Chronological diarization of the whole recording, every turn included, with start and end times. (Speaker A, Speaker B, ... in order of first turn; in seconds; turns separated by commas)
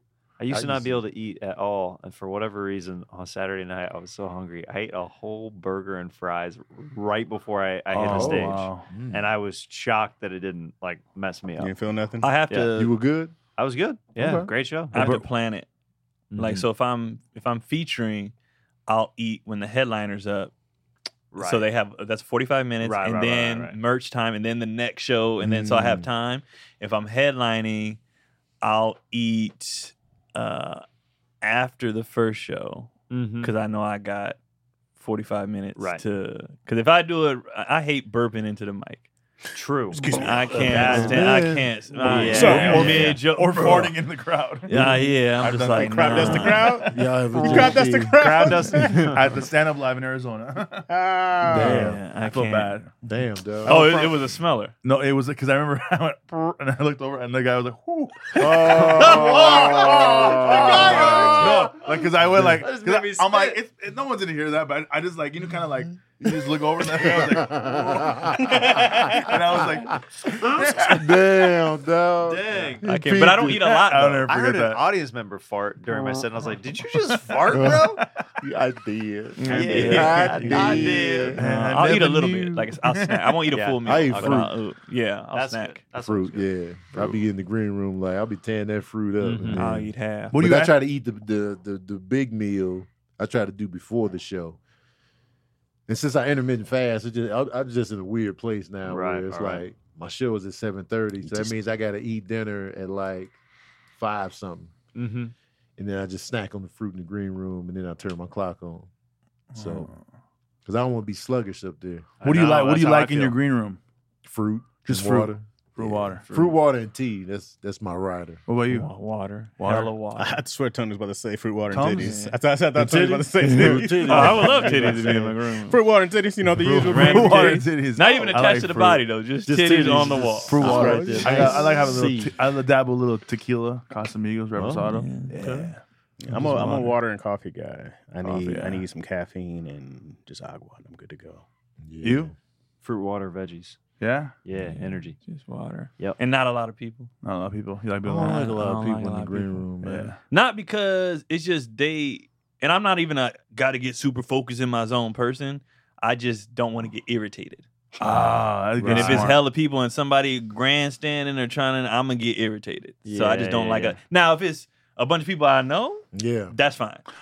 Speaker A: 0.4-11.8, Speaker B: 0.5-1.0, Speaker C: 7.9-8.9, Speaker B: 8.0-9.2, Speaker D: 11.6-12.3, Speaker E: 12.2-12.9, Speaker B: 12.8-13.3, Speaker A: 13.6-15.0, Speaker B: 14.2-14.5, Speaker E: 14.9-15.7, Speaker C: 14.9-15.2, Speaker A: 16.3-16.6, Speaker E: 16.4-18.3, Speaker E: 18.9-20.5, Speaker A: 21.3-21.6, Speaker E: 21.4-28.0, Speaker A: 22.8-23.8, Speaker B: 25.4-26.1, Speaker E: 28.6-30.8, Speaker E: 31.4-34.4, Speaker A: 33.1-33.5, Speaker E: 35.0-39.1, Speaker A: 35.8-36.0, Speaker A: 39.5-40.1, Speaker D: 39.9-41.2, Speaker C: 40.0-41.3, Speaker E: 40.1-44.0, Speaker B: 40.5-42.7, Speaker A: 42.0-43.1, Speaker D: 42.1-43.1, Speaker C: 42.1-44.9, Speaker E: 44.6-46.9, Speaker B: 44.7-45.1, Speaker C: 45.4-46.8, Speaker D: 45.5-49.1, Speaker B: 46.3-48.9, Speaker A: 47.4-49.2, Speaker C: 48.8-50.9, Speaker D: 50.9-51.9, Speaker B: 51.4-52.0, Speaker C: 51.5-53.0, Speaker E: 51.7-52.8, Speaker B: 53.0-53.8, Speaker C: 53.6-54.1, Speaker E: 53.6-54.7, Speaker C: 54.8-59.1, Speaker B: 58.3-61.7, Speaker A: 58.7-63.6, Speaker E: 59.0-59.9, Speaker C: 60.8-71.0, Speaker B: 66.9-73.6, Speaker A: 72.3-72.8, Speaker E: 72.8-74.3, Speaker C: 73.3-74.8, Speaker A: 74.3-78.0, Speaker C: 77.1-78.0, Speaker B: 77.5-81.4, Speaker E: 79.4-85.8, Speaker A: 79.4-81.4, Speaker D: 79.5-80.7, Speaker C: 81.3-83.4, Speaker A: 83.5-84.5, Speaker B: 83.8-84.5, Speaker A: 85.3-87.2, Speaker B: 86.0-94.6, Speaker A: 89.2-89.6, Speaker E: 89.5-90.4, Speaker C: 90.3-90.7, Speaker B: 95.9-103.3, Speaker A: 98.8-99.6, Speaker A: 101.2-101.5, Speaker B: 103.9-104.7, Speaker A: 104.9-105.3, Speaker B: 105.8-108.9, Speaker C: 109.5-110.0, Speaker B: 109.5-109.9, Speaker B: 110.7-112.1, Speaker A: 112.2-113.3, Speaker C: 112.2-113.8, Speaker E: 112.8-113.1, Speaker B: 114.2-118.4, Speaker C: 114.8-116.2, Speaker A: 116.3-116.5, Speaker C: 118.5-118.9, Speaker E: 118.7-120.3, Speaker C: 119.6-120.0, Speaker D: 120.2-127.7, Speaker C: 121.7-122.3, Speaker E: 122.0-122.3, Speaker B: 122.7-125.3, Speaker E: 123.5-125.8, Speaker C: 126.5-129.1, Speaker E: 126.8-131.1, Speaker B: 129.5-132.1, Speaker C: 129.9-137.0, Speaker A: 130.6-132.3, Speaker D: 130.7-131.7, Speaker B: 134.5-134.9, Speaker E: 134.8-135.7, Speaker D: 136.2-141.4, Speaker C: 138.2-138.8, Speaker B: 141.8-142.3, Speaker C: 142.0-142.3, Speaker A: 142.8-143.8, Speaker C: 144.0-144.3, Speaker A: 144.4-145.2, Speaker E: 145.2-147.1, Speaker C: 147.2-148.4, Speaker B: 148.0-150.2, Speaker E: 148.2-149.7, Speaker C: 149.8-150.2, Speaker E: 150.3-158.2, Speaker C: 158.0-159.4, Speaker B: 158.8-159.3, Speaker E: 158.8-167.0, Speaker A: 163.0-164.0, Speaker B: 166.1-166.5